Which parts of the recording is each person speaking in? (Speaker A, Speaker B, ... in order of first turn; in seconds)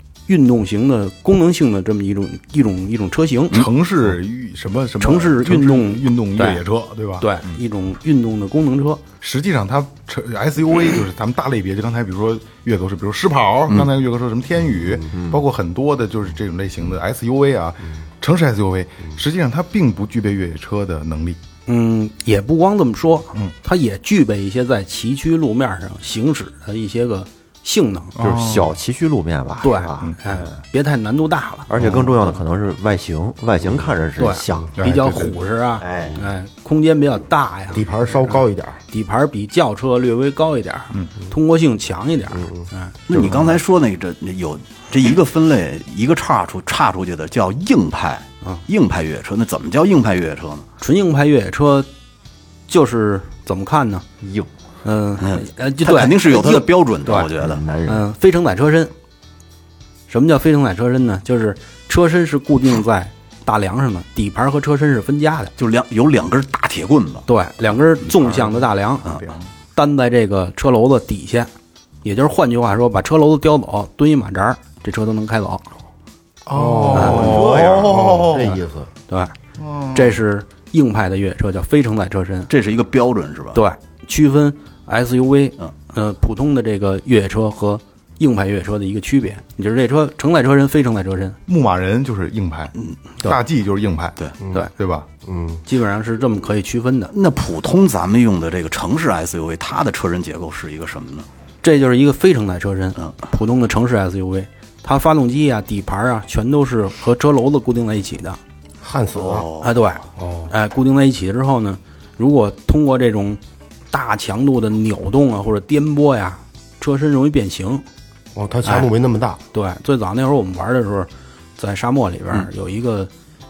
Speaker A: 0.3-3.7, 5.0-6.6, 7.2-9.0, 21.7-28.1, 29.6-31.7, 34.2-37.9, 38.9-42.9, 50.8-51.9, 52.7-54.0, 54.8-57.3, 57.8-58.9, 60.1-65.5, 67.3-69.0, 69.8-71.5, 72.0-75.7, 76.9-77.5, 79.1-79.3, 79.9-82.5, 83.5-91.4, 95.7-97.1, 101.6-108.4, 109.6-113.4, 113.9-117.8, 118.6-118.9, 119.5-123.1
Speaker B: 3.5-7.6, 9.2-21.4, 28.2-28.8, 34.8-35.3, 68.0-69.4, 76.5-78.6, 79.6-80.2, 91.5-94.2, 94.7-95.1
Speaker C: 15.1-15.4, 28.2-30.5, 31.7-35.2, 35.8-36.2, 43.2-43.4, 54.2-54.5, 57.4-58.1
Speaker D: 37.7-38.8, 76.5-78.9, 95.2-95.6, 108.8-109.5, 110.2-110.5, 118.3-119.4
Speaker E: 43.1-50.7, 55.2-57.6, 65.6-67.2, 77.2-77.9, 82.5-83.6, 97.1-101.3, 109.1-109.8